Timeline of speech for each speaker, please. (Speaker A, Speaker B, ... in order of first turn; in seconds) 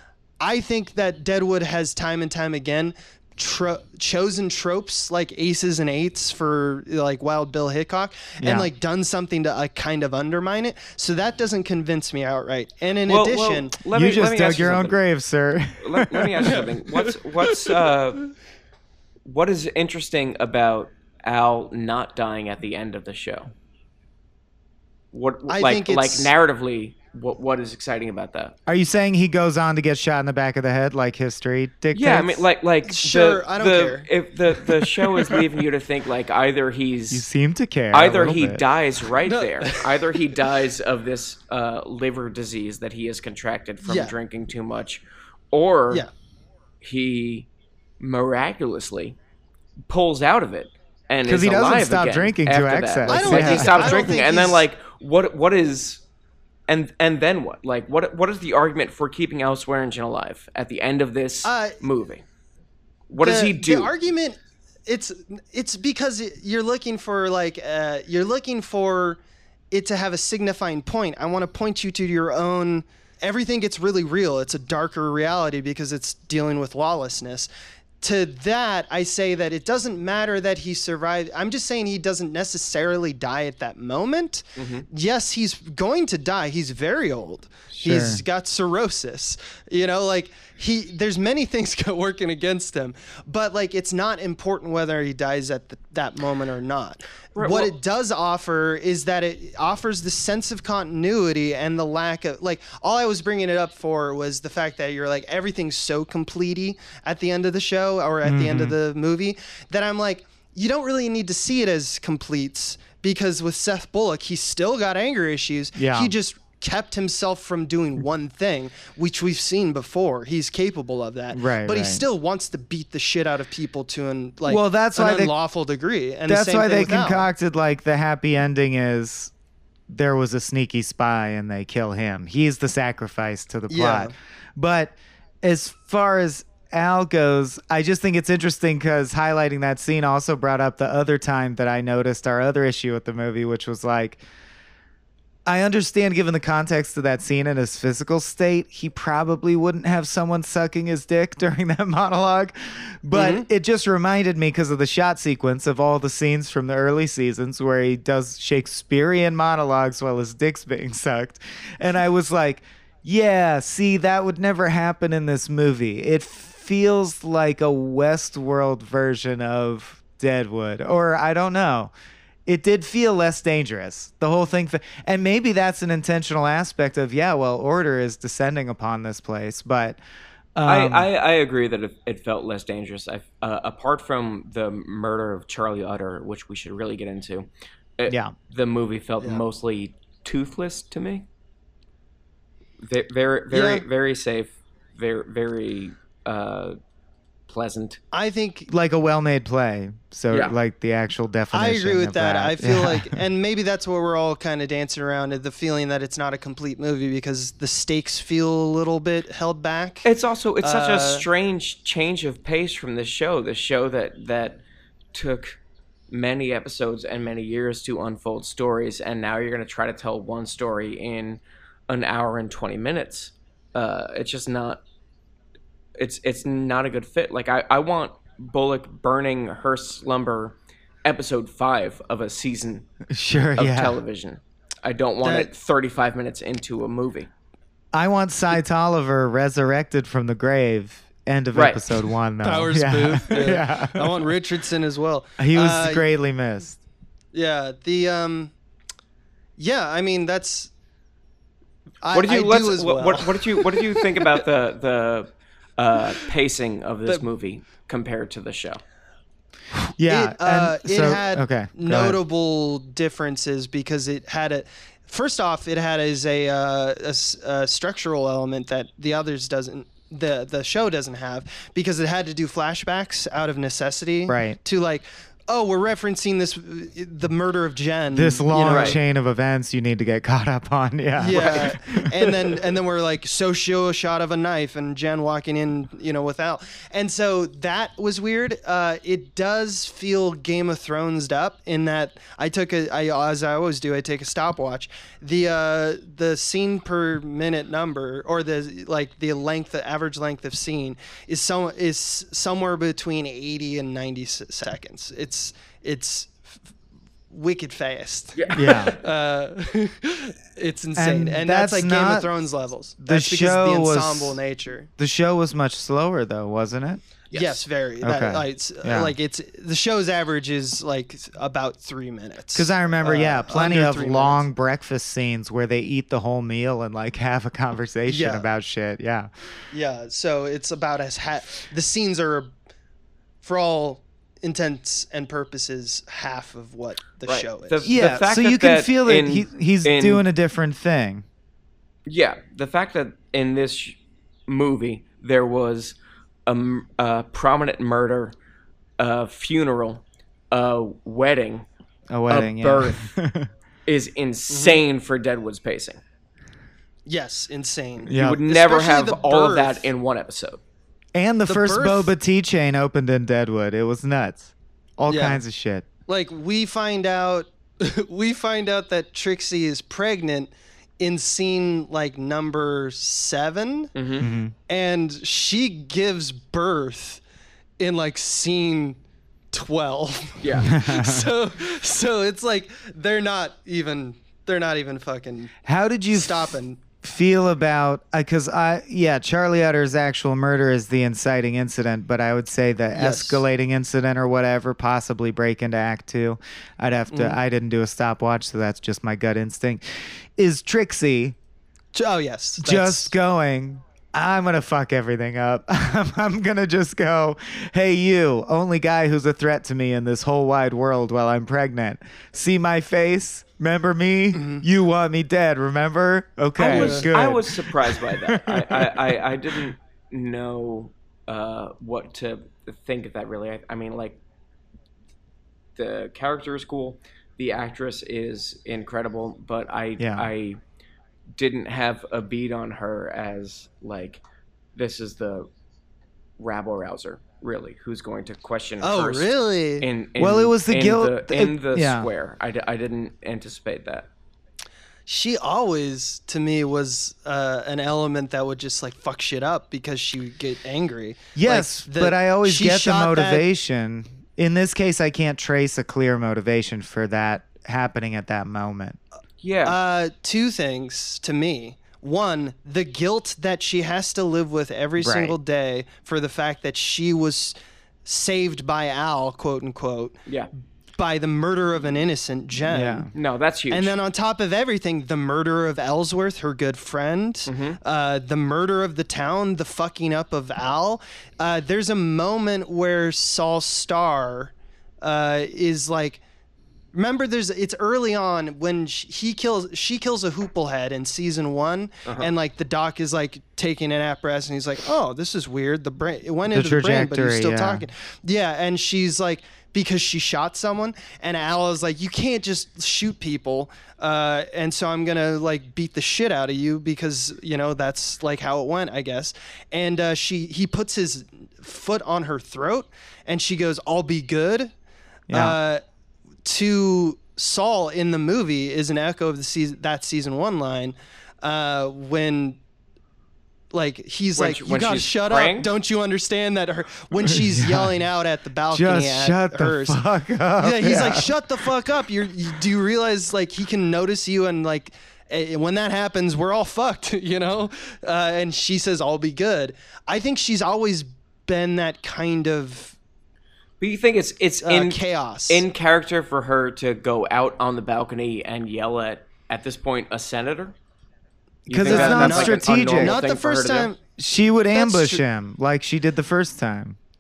Speaker A: 0.4-13.8, 16.4-17.9, 25.5-26.3, 32.9-35.5, 39.3-40.0, 43.9-44.1, 53.1-54.6, 61.4-61.8, 63.2-69.2, 69.7-77.5, 78.0-127.3, 133.7-134.1, 153.1-153.5, 193.5-193.8, 198.1-198.7, 201.5-210.1, 210.6-211.2, 235.2-235.5, 242.4-246.1, 247.3-248.5, 249.6-250.7, 252.0-254.4, 260.1-279.0, 281.2-306.6, 307.3-314.9, 317.3-324.4, 328.1-328.5, 329.7-332.5, 333.4-338.2, 354.5-354.8, 357.1-359.9, 361.5-362.1, 365.1-365.4, 366.1-373.9, 374.7-377.2, 377.8-379.0, 379.5-385.6, 386.1-386.8, 392.9-393.4, 397.1-397.4, 401.9-403.1, 414.3-414.6, 416.6-417.1, 438.8-439.9, 445.1-453.4, 459.6-470.2, 471.0-473.1, 473.7-486.2, 486.9-514.7, 515.3-515.8, 516.5-522.6, 523.7-530.0, 530.6-543.0, 544.6-545.6, 551.8-554.0, 554.7-555.2
Speaker B: 8.4-8.7, 13.9-16.3, 28.7-32.5, 37.1-38.6, 51.2-54.1, 87.7-88.2, 108.2-108.8, 115.8-116.1, 121.3-122.0, 124.5-125.3, 126.3-129.3, 129.9-144.2, 145.5-171.9, 172.5-180.0, 180.6-181.1, 188.1-188.3, 198.7-203.2, 233.1-234.0, 237.9-244.2, 245.4-246.8, 260.0-262.2, 274.3-274.6, 278.1-282.1, 308.5-308.9, 311.0-312.3, 313.0-314.4, 315.0-317.0, 318.0-319.1, 322.6-329.3, 337.9-341.2, 352.1-353.5, 358.1-358.4, 361.1-365.9, 374.2-374.5, 380.6-381.3, 385.6-399.8, 400.4-401.4, 402.6-419.2, 430.0-430.3, 440.2-442.1, 451.4-459.0, 465.0-465.4, 472.6-473.1, 496.5-497.9, 515.3-515.6, 527.4-527.9, 528.7-531.3, 551.7-553.2, 554.2-557.0
Speaker C: 13.1-15.0, 15.8-18.3, 19.2-23.5, 25.1-28.6, 31.9-37.3, 37.9-46.1, 46.8-47.5, 48.0-49.1, 49.9-56.0, 56.7-62.2, 63.1-63.9, 84.6-84.9, 97.3-97.7, 180.6-187.5, 188.0-191.3, 192.8-196.8, 197.5-198.0, 210.0-214.6, 215.1-215.6, 216.1-224.8, 226.0-232.9, 233.6-237.3, 241.5-241.8, 252.1-258.8, 278.7-279.0, 281.3-281.7, 308.4-308.9, 317.3-317.6, 337.3-340.2, 342.1-348.4, 349.0-351.6, 352.3-353.1, 353.9-356.0, 358.1-360.6, 373.9-374.3, 380.4-380.7, 416.6-424.2, 425.8-430.6, 431.4-434.2, 434.8-435.5, 436.4-444.1, 459.4-459.8, 473.1-473.9, 477.5-477.8, 524.4-525.7, 543.8-550.8, 551.6-553.9